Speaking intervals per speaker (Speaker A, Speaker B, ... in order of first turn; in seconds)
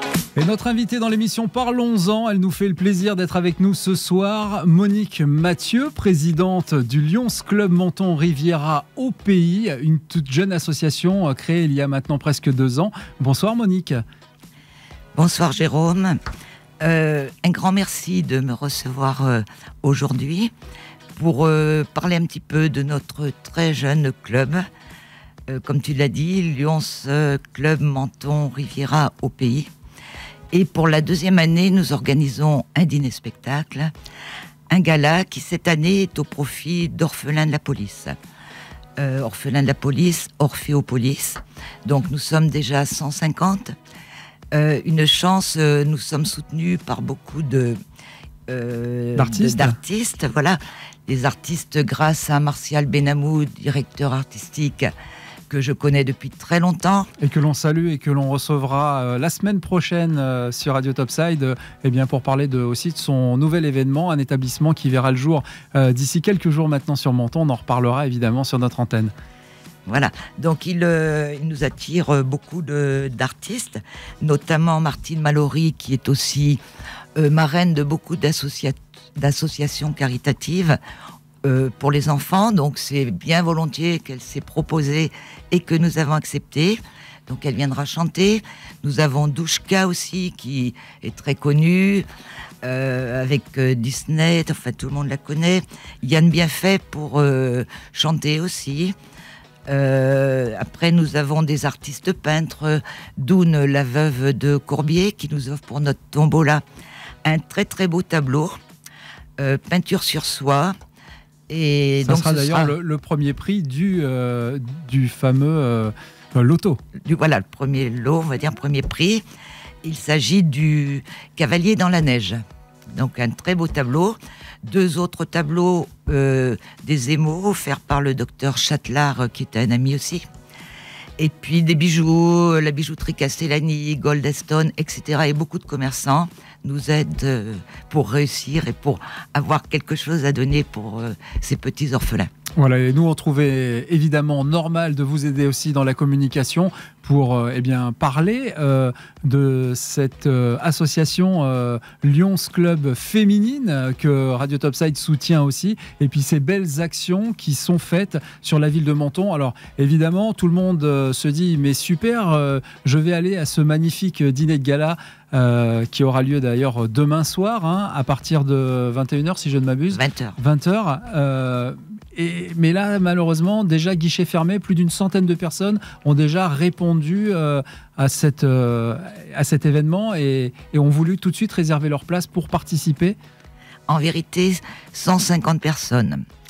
Speaker A: 0.3-14.0, 49.2-49.8, 57.2-69.1, 112.0-116.8, 142.6-183.2
Speaker B: 15.2-16.2, 16.8-20.5, 21.2-24.6, 25.5-29.7, 30.5-33.9, 34.7-38.1, 39.0-43.7, 44.5-47.8, 48.5-54.9, 55.5-57.1, 69.9-76.6, 77.2-80.8, 81.4-92.0, 92.6-99.0, 99.7-106.6, 107.2-108.5, 109.4-110.7, 111.5-112.8, 117.0-119.2, 119.8-122.4, 122.9-130.2, 131.2-142.3, 169.9-170.4, 183.9-186.2